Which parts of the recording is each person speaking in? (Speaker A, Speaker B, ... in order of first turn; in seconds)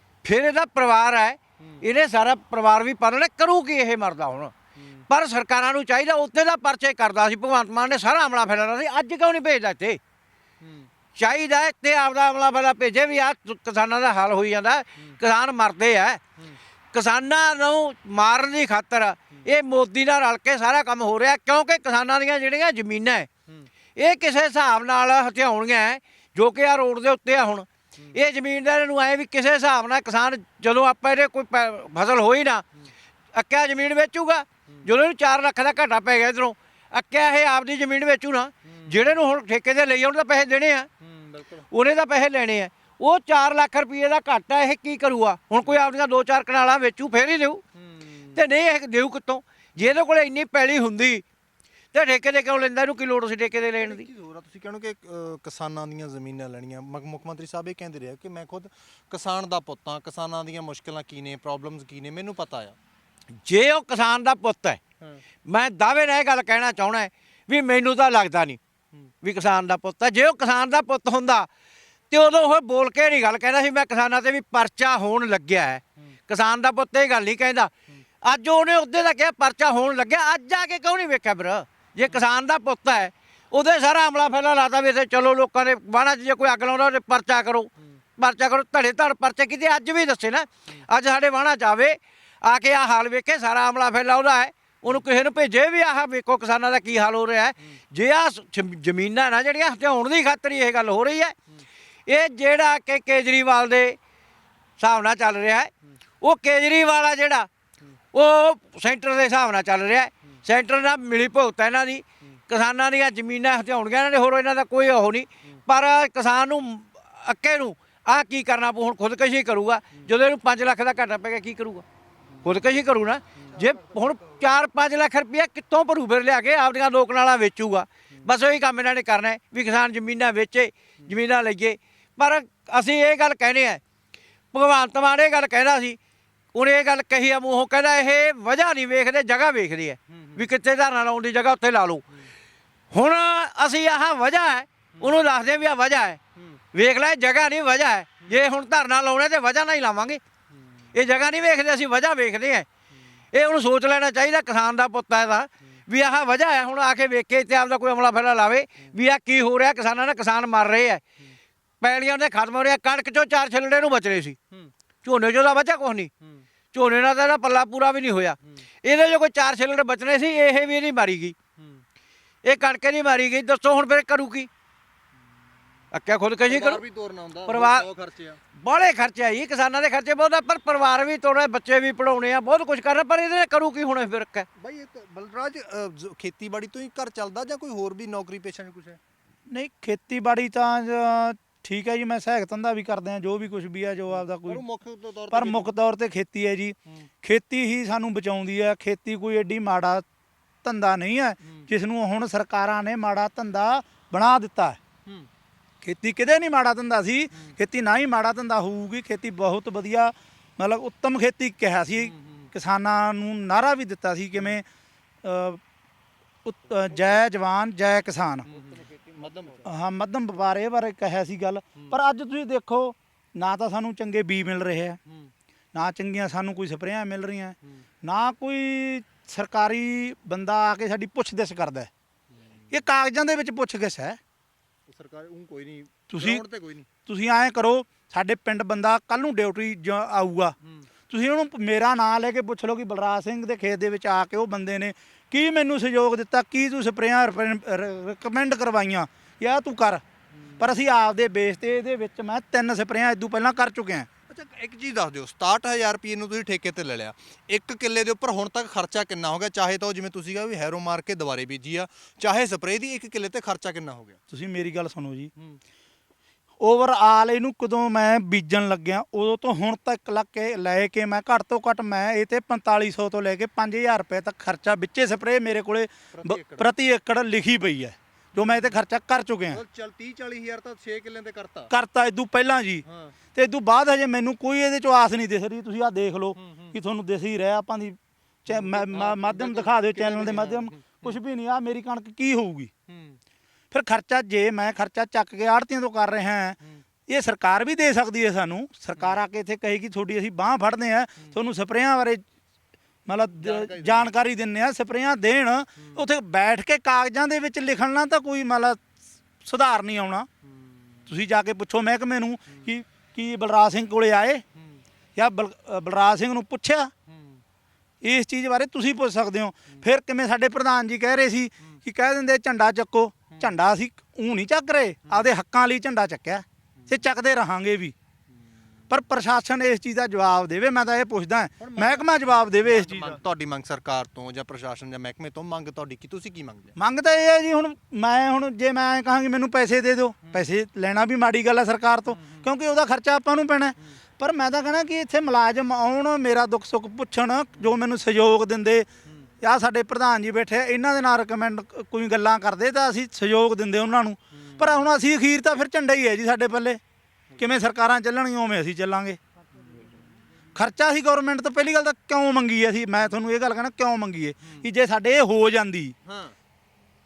Speaker A: 0.2-4.5, 5.1-10.0, 11.1-16.2, 16.9-23.3, 23.9-32.6, 33.3-40.9, 41.7-47.6, 48.3-51.2, 51.9-54.1, 63.4-64.8, 65.4-68.6, 69.2-71.5, 72.1-101.4, 102.1-104.0, 104.8-107.5, 108.1-121.8, 122.4-133.8, 134.5-136.0, 136.5-142.0, 142.9-146.2, 146.7-150.2, 150.9-152.7, 153.3-161.0, 161.8-164.4, 165.0-166.1, 166.7-171.3, 172.4-174.5, 175.9-176.8, 177.4-177.9, 178.6-184.5
Speaker B: 4.8-5.0, 10.6-10.9, 38.7-39.1, 41.0-41.6, 47.8-48.4, 53.8-62.8, 123.4-124.4, 140.1-140.4, 145.0-145.2, 171.6-171.8, 176.4-178.4, 184.6-189.0, 194.1-195.7, 201.4-201.7, 212.0-212.5, 218.5-219.7, 234.9-236.9, 250.4-250.8, 254.3-264.2, 276.1-276.7, 278.3-278.8, 279.5-281.7, 282.8-283.1, 286.4-286.8, 288.5-291.2, 292.9-293.2, 298.9-299.2, 303.4-304.1, 305.8-306.0, 310.5-311.1, 314.5-314.8, 317.1-317.4, 331.6-336.7, 342.1-342.5, 354.4-354.8, 366.0-366.4
Speaker C: 189.5-194.6, 195.3-200.0, 200.6-204.8, 205.8-214.6, 215.2-215.6, 216.4-218.5, 219.6-225.0, 225.7-231.9, 232.7-234.2, 236.1-236.4, 237.0-240.5, 241.1-250.0, 250.6-254.1, 264.3-265.3, 266.6-279.6, 281.7-282.8, 283.3-292.7, 293.7-302.2, 303.1-308.8, 309.4-310.3, 311.1-314.4, 315.1-316.9, 318.0-327.9, 328.9-333.2, 336.8-348.9, 349.4-356.8, 357.4-359.2, 360.5-365.9